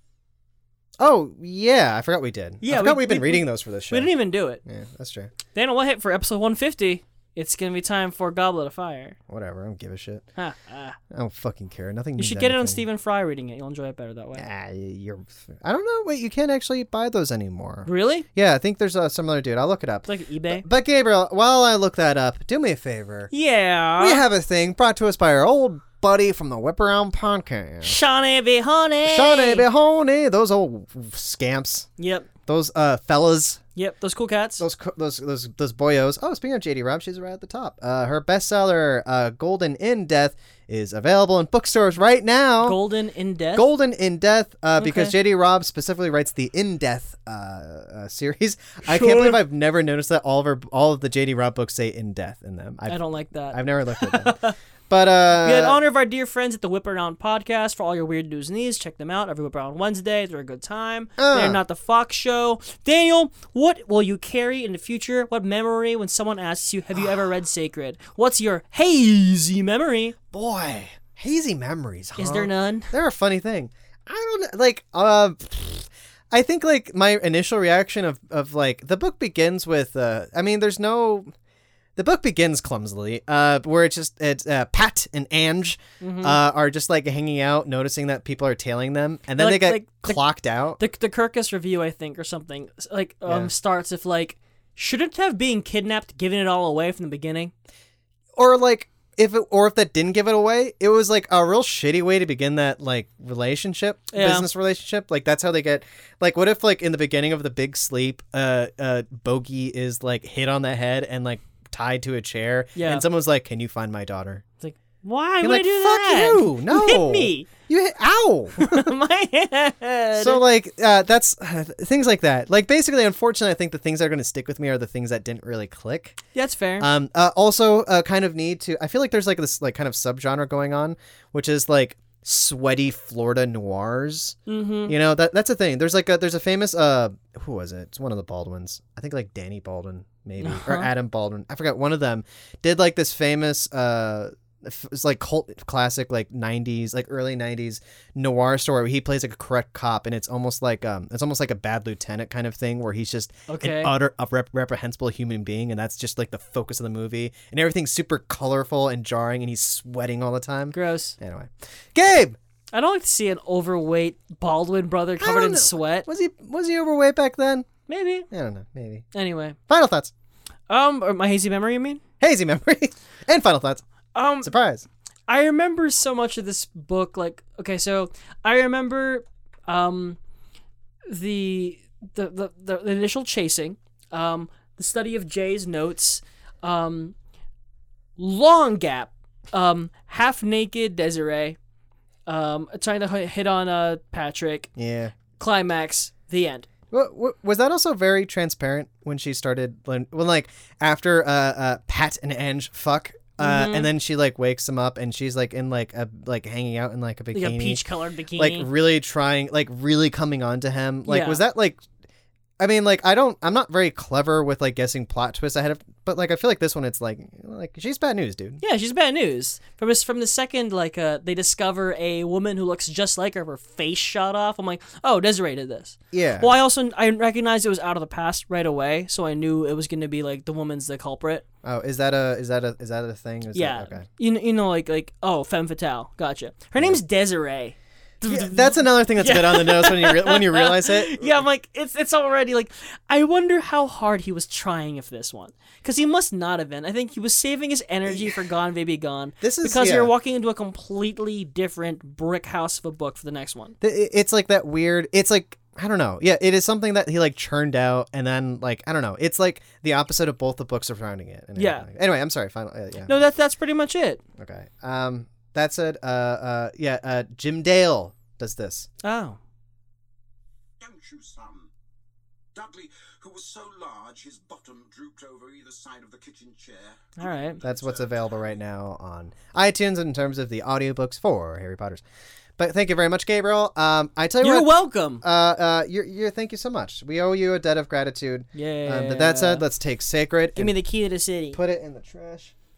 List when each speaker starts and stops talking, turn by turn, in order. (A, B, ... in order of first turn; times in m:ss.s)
0:01.0-0:04.1 A
0:02.6-0:04.6 B
0:04.6-0:05.3 A
0:05.5-0:09.2 B
0:09.3-0:10.2 A
0:10.4-0:11.0 B
0:11.1-0:12.8 A
0:12.2-0:14.4 B
0:14.3-0:23.3 A
0:17.8-0:18.2 B
0:20.1-0:20.6 B
0:23.3-0:24.2 B
0:24.0-0:28.0 A
0:27.8-0:29.6 B
0:29.0-0:31.9 A
0:32.0-0:32.3 B
0:32.4-0:33.6 A
0:33.7-0:34.6 B
0:34.6-0:42.8 A
0:42.6-0:43.7 B
0:43.5-0:53.0 A
0:44.8-0:45.1 B
0:48.8-0:49.4 B
0:52.9-0:54.6 B
0:53.5-0:54.4 A
0:54.9-0:55.8 A
0:55.4-1:10.2 B
1:01.2-1:01.6 A
1:10.3-1:21.3 A
1:12.2-1:12.9 B
1:22.0-1:30.8 A
1:26.0-1:26.4 B
1:29.4-1:30.2 B
1:30.8-1:37.5 B
1:38.3-1:54.4 A
1:44.1-1:44.5 B
1:52.7-1:53.0 B
1:54.6-1:57.5 B
1:55.4-1:58.8 A
1:58.6-2:00.4 B
2:00.2-2:06.2 A
2:06.3-2:06.9 B
2:06.8-2:42.4 A
2:14.5-2:14.9 B
2:20.4-2:20.9 B
2:33.5-2:33.9 B
2:40.7-2:41.2 B
2:42.7-2:46.1 B
2:45.2-2:47.7 A
2:47.9-2:48.3 B
2:48.3-2:49.0 A
2:49.1-2:49.6 B
2:49.7-2:50.1 A
2:50.7-2:52.0 B
2:52.2-2:53.8 A
2:54.1-2:54.5 B
2:54.4-2:54.9 A
2:55.3-3:00.2 B
3:01.1-3:07.1 B
3:08.2-3:11.6 B
3:12.3-3:14.7 B
3:14.8-3:15.1 A
3:15.4-3:16.7 B
3:16.9-3:27.8 A
3:23.4-3:23.9 B
3:27.3-3:28.7 B
3:28.4-3:31.8 A
3:31.1-3:31.4 B
3:32.6-3:38.6 A
3:38.6-3:51.4 B
3:46.1-3:46.5 A
3:51.6-3:54.0 A
3:53.5-4:13.7 B
3:58.2-4:01.4 A
4:09.4-4:10.1 A
4:13.8-4:23.1 A
4:21.6-4:21.8 B
4:23.1-4:24.2 B
4:24.4-4:28.9 A
4:29.0-4:29.4 B
4:30.8-4:31.7 C
4:32.5-4:38.4 C
4:37.2-4:37.6 B
4:37.6-4:42.0 A
4:42.6-4:44.7 A
4:44.4-4:45.2 B
4:45.2-4:50.7 A
4:48.5-4:49.7 B
4:50.5-4:51.6 B
4:51.5-4:52.5 A